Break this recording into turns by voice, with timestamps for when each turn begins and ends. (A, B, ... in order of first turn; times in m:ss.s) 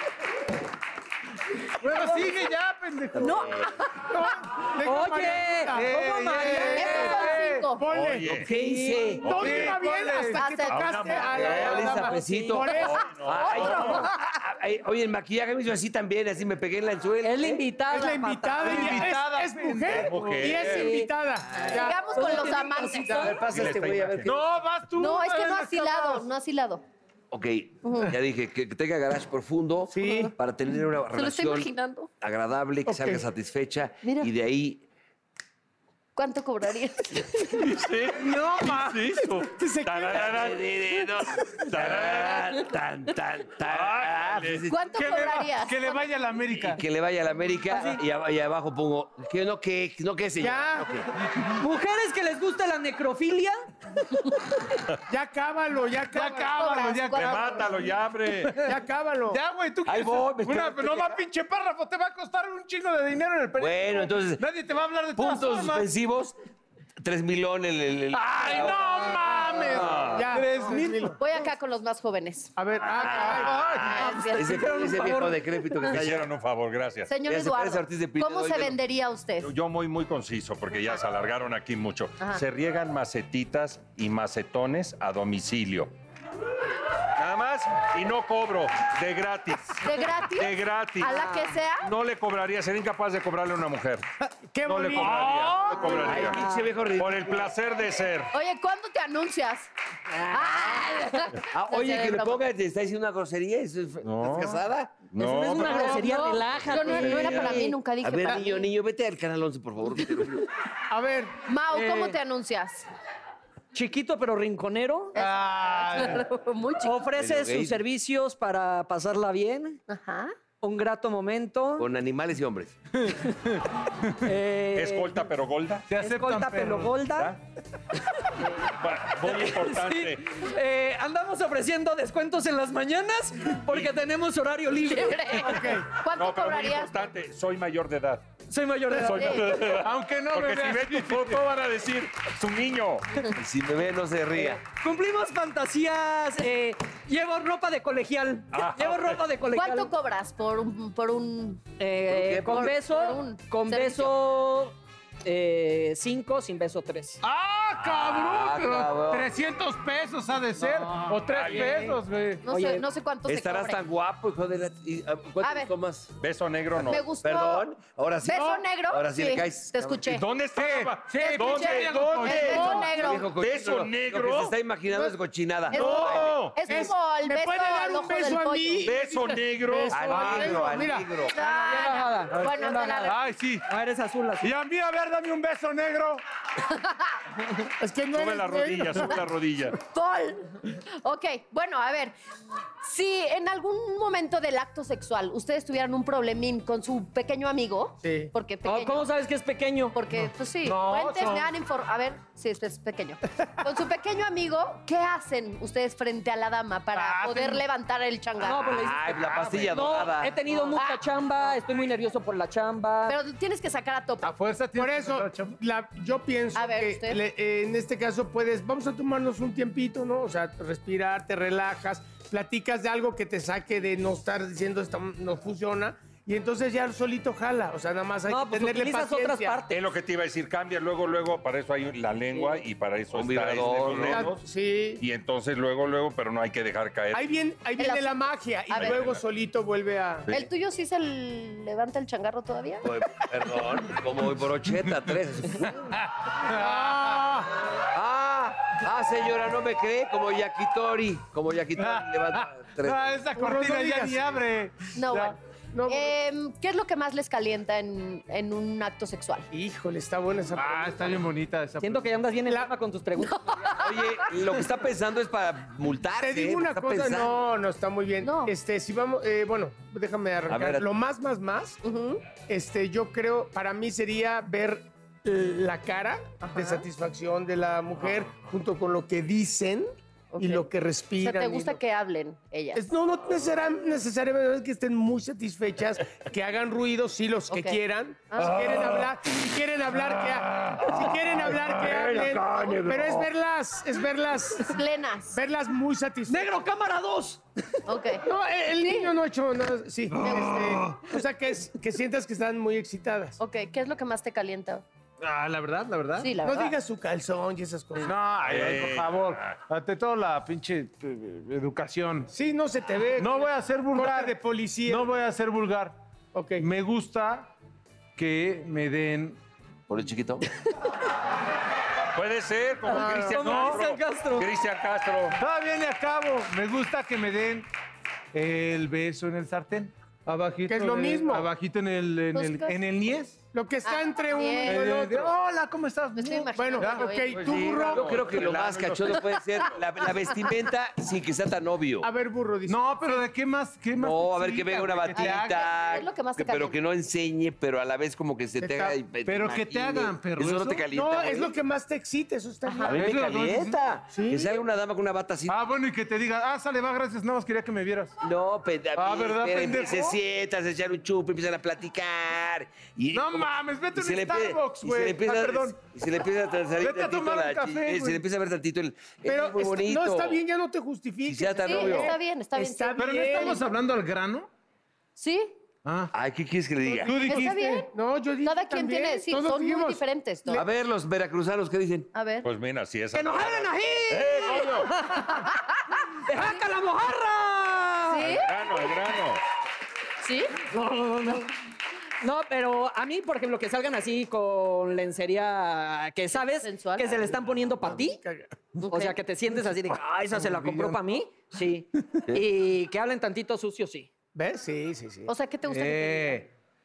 0:01.8-0:03.5 A
0:03.2-0:03.6 B
0:03.2-0:04.0 C
0:04.1-0:08.4 D
0:04.8-0:06.4 E
0:04.9-0:07.7 A
0:06.0-0:07.8 C
0:07.9-0:08.5 F
0:08.3-0:09.5 B
0:08.6-0:10.4 A
0:08.6-0:09.0 E
0:09.2-0:09.8 F
0:09.2-0:13.7 D
0:10.3-0:11.2 C
0:10.7-0:12.1 F
0:11.3-0:17.6 B
0:12.1-0:12.6 E
0:12.7-0:14.1 F
0:13.4-0:14.1 C
0:17.2-0:19.1 E
0:17.9-0:22.5 D
0:18.6-0:20.6 A
0:19.9-0:20.9 F
0:20.7-0:21.1 E
0:21.7-0:23.4 C
0:21.8-0:23.4 E
0:23.1-0:24.4 B
0:23.4-0:24.3 F
0:24.2-0:26.3 A
0:25.0-0:26.8 C
0:27.3-0:31.7 B
0:27.8-0:28.1 C
0:29.9-0:30.3 D
0:30.0-0:30.3 C
0:31.1-0:32.1 C
0:32.2-0:34.8 B
0:32.9-0:33.3 D
0:34.0-0:34.3 C
0:36.2-0:37.6 C
0:37.5-0:40.7 F
0:38.2-0:39.2 A
0:39.5-0:40.5 D
0:40.1-0:44.8 B
0:41.6-0:42.6 F
0:43.7-0:44.7 F
0:44.7-0:46.0 C
0:44.9-0:46.8 A
0:46.6-0:51.1 B
0:47.7-0:48.0 E
0:50.4-0:50.9 D
0:51.6-0:53.6 E
0:55.1-0:57.0 D
0:56.1-0:57.9 A
0:56.6-0:57.6 C
0:57.2-0:58.6 F
0:58.5-0:58.7 A
0:58.6-0:59.4 D
0:59.3-1:05.9 A
0:59.9-1:01.2 B
1:03.6-1:04.4 B
1:05.2-1:06.4 B
1:07.0-1:10.2 B
1:08.1-1:11.2 A
1:10.1-1:11.2 D
1:11.2-1:14.8 C
1:12.6-1:13.6 D
1:13.0-1:16.3 B
1:13.2-1:14.0 A
1:14.0-1:15.8 E
1:15.9-1:17.1 F
1:17.1-1:19.5 C
1:17.2-1:18.8 B
1:19.4-1:25.9 F
1:27.2-1:34.0 F
1:29.8-1:31.9 C
1:34.5-1:36.2 D
1:34.6-1:38.3 F
1:36.0-1:37.5 B
1:36.2-1:36.6 E
1:38.3-1:39.7 C
1:40.3-1:42.4 C
1:40.3-1:40.6 B
1:41.4-1:45.7 B
1:44.0-1:47.6 F
1:45.2-1:47.8 E
1:45.6-1:48.7 C
1:46.9-1:50.5 B
1:50.9-1:51.3 D
1:51.5-1:52.9 C
1:51.8-1:52.1 E
1:53.7-1:55.2 E
1:55.2-1:56.2 A
1:55.2-1:57.0 C
1:56.8-1:59.8 E
1:57.2-1:57.8 B
1:59.9-2:00.3 C
2:00.6-2:01.9 E
2:01.8-2:02.8 B
2:04.2-2:05.3 E
2:04.7-2:05.9 F
2:05.9-2:07.1 A
2:06.0-2:07.4 E
2:07.1-2:07.4 F
2:08.6-2:10.2 F
2:09.1-2:15.7 E
2:14.8-2:17.1 C
2:15.4-2:15.9 D
2:16.1-2:18.2 F
2:18.5-2:19.8 E
2:18.9-2:23.3 F
2:19.7-2:21.4 A
2:23.3-2:24.6 B
2:24.4-2:29.9 E
2:28.5-2:29.2 F
2:29.5-2:31.8 C
2:31.8-2:37.2 E
2:32.1-2:32.7 B
2:32.5-2:34.1 C
2:37.2-2:42.4 A
2:37.8-2:39.3 B
2:41.3-2:41.9 F
2:42.4-2:43.8 C
2:42.5-2:42.8 E
2:43.3-2:46.1 B
2:45.4-2:45.7 C
2:46.2-2:47.1 F
2:46.8-2:47.7 C
2:47.2-2:50.1 B
2:48.2-2:50.2 C
2:48.3-2:48.6 D
2:50.1-2:54.6 F
2:50.5-2:52.9 A
2:51.2-2:53.3 C
2:52.5-2:56.4 B
2:52.6-2:52.9 D
2:54.9-2:55.2 D
2:55.7-2:58.9 C
2:55.8-2:56.6 F
2:56.7-3:01.1 D
2:58.8-3:00.4 F
2:59.9-3:01.4 B
3:00.2-3:00.6 A
3:01.3-3:03.2 C
3:01.4-3:04.5 E
3:03.1-3:03.7 A
3:04.4-3:06.2 A
3:07.8-3:09.2 D
3:08.1-3:09.8 F
3:09.8-3:12.1 C
3:12.8-3:19.1 C
3:18.0-3:18.3 D
3:18.6-3:20.0 E
3:19.9-3:28.7 C
3:20.6-3:21.5 A
3:26.9-3:27.6 A
3:28.4-3:33.2 E
3:28.6-3:30.4 B
3:29.2-3:29.8 A
3:30.7-3:31.0 C
3:33.1-3:34.3 C
3:34.2-3:35.6 A
3:34.8-3:49.6 D
3:36.6-3:37.2 C
3:48.3-3:49.8 E
3:49.7-3:54.4 F
3:53.1-3:54.3 B
3:54.1-3:55.0 D
3:55.0-3:57.2 F
3:57.1-4:00.3 D
3:57.8-3:59.0 C
3:58.8-3:59.2 F
4:00.3-4:02.9 C
4:02.8-4:05.9 B
4:05.9-4:07.4 A
4:06.4-4:07.5 D
4:07.9-4:13.1 B
4:11.8-4:15.4 A
4:13.4-4:14.2 D
4:15.0-4:15.4 C
4:15.7-4:16.2 D
4:15.9-4:19.5 C
4:19.5-4:21.2 D
4:20.6-4:22.1 A
4:21.8-4:23.8 E
4:23.3-4:24.2 C
4:23.8-4:27.4 B
4:26.2-4:41.8 D
4:28.2-4:28.5 C
4:30.5-4:30.9 B
4:31.8-4:32.2 C
4:36.4-4:36.8 C
4:40.3-4:40.7 C
4:41.2-4:42.8 C
4:42.7-4:54.8 D
4:47.5-4:48.6 C
4:51.8-4:53.2 B
4:54.7-4:55.4 C
4:55.3-4:56.5 D
4:56.3-4:57.4 E
4:57.9-4:58.3 C
4:58.2-5:03.4 D
4:58.8-4:59.1 C
5:00.1-5:01.2 A
5:03.4-5:04.8 C
5:05.2-5:06.3 A
5:06.2-5:06.7 C
5:06.4-5:08.1 D
5:08.0-5:12.3 A
5:08.4-5:09.6 F
5:12.3-5:15.1 D
5:13.2-5:16.0 A
5:16.3-5:16.7 D
5:16.6-5:17.5 A
5:18.2-5:19.4 A
5:19.9-5:20.5 B
5:22.1-5:25.4 F
5:22.9-5:24.5 E
5:23.3-5:23.8 A
5:25.4-5:27.7 A
5:28.3-5:33.4 A
5:30.7-5:31.5 D
5:32.3-5:32.8 C
5:33.5-5:35.4 D
5:33.9-5:34.8 C
5:34.6-5:37.2 A
5:36.1-5:37.6 C
5:36.6-5:38.3 D
5:37.3-5:39.7 F
5:37.9-5:42.1 B
5:42.0-5:42.9 D
5:42.7-5:45.7 A
5:44.0-5:51.5 B
5:45.1-5:46.8 C
5:48.6-5:49.0 D
5:49.2-5:50.8 A
5:50.9-5:53.0 D
5:52.7-5:52.9 C
5:52.9-5:55.6 B
5:52.9-5:53.8 A
5:54.1-5:54.6 D
5:55.5-5:58.1 A
5:58.2-6:10.4 B
5:59.0-6:00.2 A
6:03.1-6:05.8 A
6:06.8-6:08.2 A
6:09.2-6:13.7 D
6:11.3-6:12.2 B
6:11.6-6:13.6 C
6:13.0-6:14.5 A
6:15.2-6:15.6 C
6:15.8-6:16.1 A
6:16.1-6:17.2 B
6:16.9-6:20.6 D
6:17.0-6:17.8 A
6:17.2-6:17.9 C
6:18.4-6:20.6 C
6:20.5-6:22.1 B
6:22.1-6:22.5 C
6:22.4-6:25.0 F
6:23.1-6:25.5 E
6:26.3-6:28.2 E
6:26.4-6:26.6 C
6:28.1-6:28.5 C
6:28.2-6:29.4 F
6:30.2-6:30.6 C
6:30.7-6:31.5 E
6:32.2-6:38.2 E
6:36.6-6:37.2 C
6:37.8-6:38.5 D
6:38.8-6:39.2 C
6:38.9-6:44.1 E
6:39.9-6:41.0 A
6:44.4-6:45.3 D
6:45.3-6:46.4 C
6:45.7-6:46.5 A